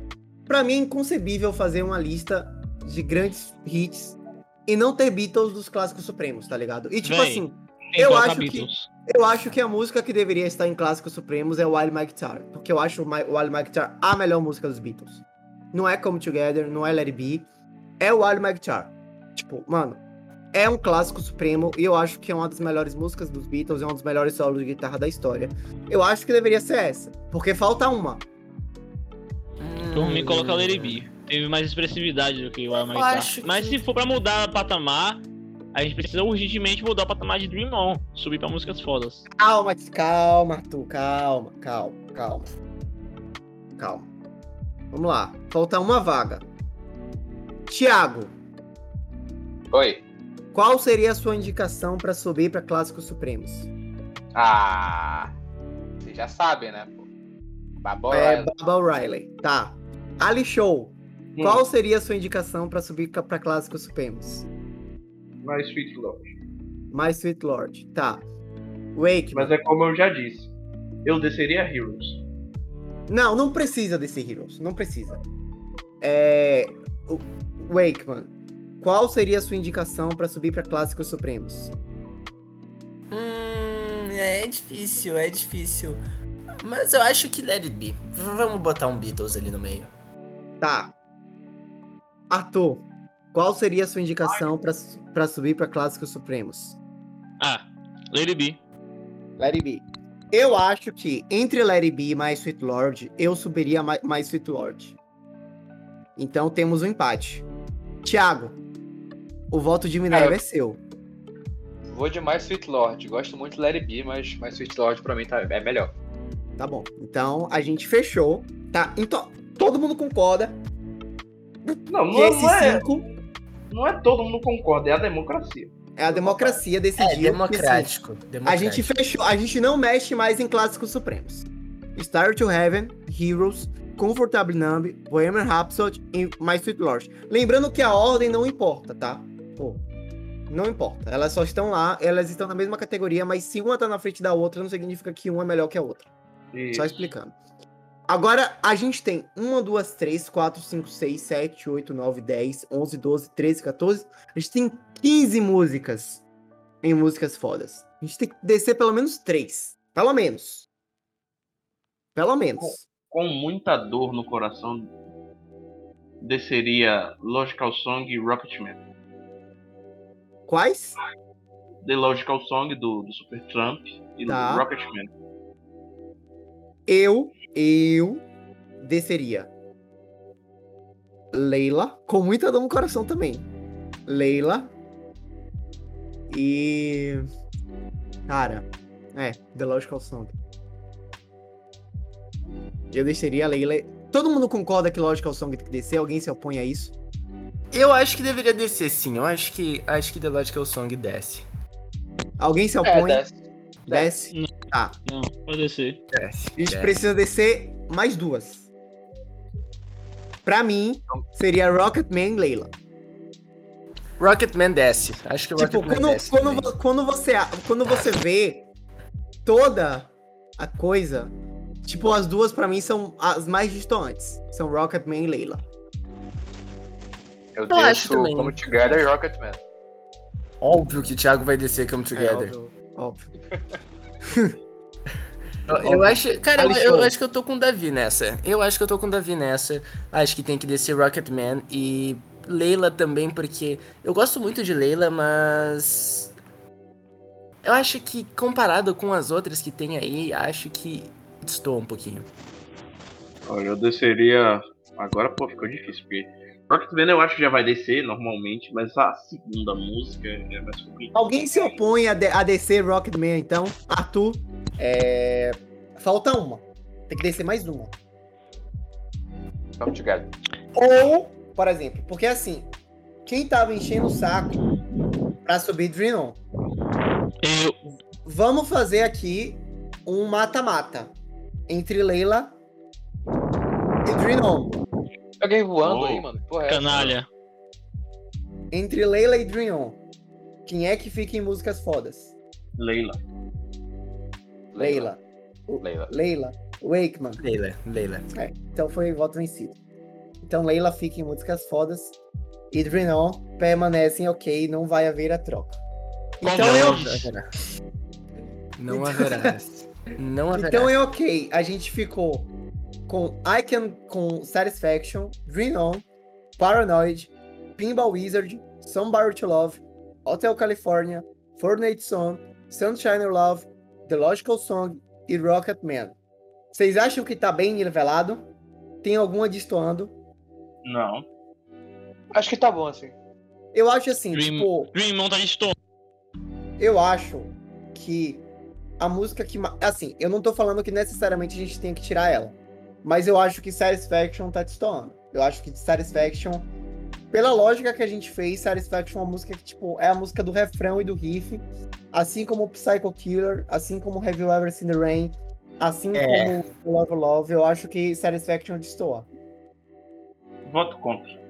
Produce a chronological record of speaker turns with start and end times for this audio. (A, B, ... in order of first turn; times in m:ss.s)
0:00.5-0:17.5 A
0:07.0-0:08.9 B
0:18.0-0:20.0 A
0:20.5-0:28.2 A
0:29.6-0:31.0 C
0:29.9-0:35.2 B
0:32.7-0:33.8 C
0:35.7-0:39.2 B
0:39.4-0:42.5 A
0:43.8-0:44.1 A
0:44.9-0:46.4 A
0:47.7-0:48.3 A
0:49.7-0:50.0 D
0:50.5-0:53.7 A
0:54.3-0:55.3 D
0:56.0-0:57.0 D
0:57.8-0:58.5 D
0:58.1-1:04.4 A
1:01.4-1:01.6 E
1:05.4-1:06.3 E
1:06.9-1:08.2 A
1:08.9-1:09.5 A
1:09.3-1:10.5 E
1:11.0-1:12.2 E
1:13.1-1:15.2 A
1:16.0-1:21.7 A
1:23.1-1:26.0 C
1:26.6-1:29.9 C
1:30.6-1:30.9 A
1:32.3-1:36.8 A
1:37.4-1:38.6 B
1:39.4-1:44.9 A
1:46.2-1:47.4 A
1:48.0-1:48.6 A
1:49.5-1:50.8 A
1:50.1-1:50.4 D
1:51.9-1:55.9 D
1:56.6-2:00.6 A
2:01.6-2:03.0 A
2:01.9-2:02.9 E
2:03.7-2:06.6 E
2:06.0-2:07.9 A
2:07.0-2:08.9 C
2:08.4-2:19.8 A
2:20.5-2:26.1 A
2:26.5-2:27.0 E
2:26.7-2:27.3 A
2:28.1-2:36.2 A
2:36.8-2:40.7 A
2:42.1-2:42.8 A
2:42.6-2:44.9 E
2:46.2-2:48.8 E
2:50.5-2:51.0 A
2:51.8-2:55.1 E
2:54.3-2:54.6 A
2:56.9-2:58.2 A
2:58.8-2:59.5 A
3:01.3-3:03.5 A
3:04.1-3:04.7 A
3:06.3-3:07.2 A
3:08.3-3:10.3 A
3:12.9-3:16.9 A
3:17.7-3:21.4 C
3:22.4-3:23.2 A
3:22.8-3:23.4 D
3:23.9-3:25.0 A
3:25.0-3:26.0 B
3:26.1-3:27.0 C
3:26.6-3:28.7 A
3:30.4-3:32.7 A
3:34.2-3:36.7 C
3:35.6-3:38.6 A
3:39.4-3:41.3 A
3:41.8-3:45.6 A
3:47.5-3:49.6 D
3:47.7-3:49.1 C
3:50.6-3:52.5 C
3:52.1-3:53.3 A
3:55.7-4:06.3 C
3:55.8-3:57.1 A
4:07.6-4:12.3 C
4:13.4-4:21.1 E
4:21.1-4:27.9 A
4:29.8-4:30.3 D
4:30.8-4:32.7 A
4:33.2-4:34.6 A
4:35.4-4:36.4 A
4:37.4-4:37.8 B
4:38.2-4:41.1 A
4:41.7-4:42.5 A
4:44.0-4:44.8 A
4:45.4-4:47.1 D
4:45.8-4:46.2 E
4:46.7-4:47.3 B
4:48.7-4:50.0 A
4:50.6-4:52.3 A
4:52.8-4:53.2 E
4:54.7-4:55.1 D
4:54.8-4:57.4 A
4:55.8-4:56.1 D
4:57.4-4:58.3 C
4:58.3-4:59.8 A
5:00.4-5:02.2 A
5:02.7-5:05.8 A
5:06.4-5:07.0 A
5:06.4-5:07.3 B
5:06.6-5:07.4 C
5:08.8-5:10.9 C
5:08.9-5:09.6 A
5:10.1-5:12.5 A
5:13.1-5:16.0 A
5:16.6-5:26.2 A
5:26.7-5:28.4 A
5:29.0-5:30.1 A
5:30.8-5:31.2 E
5:32.3-5:33.1 D
5:33.7-5:34.9 A
5:34.3-5:35.7 B
5:36.8-5:38.4 A
5:39.0-5:46.7 A
5:47.3-5:59.3 A
5:56.1-5:56.6 C
6:00.6-6:01.3 E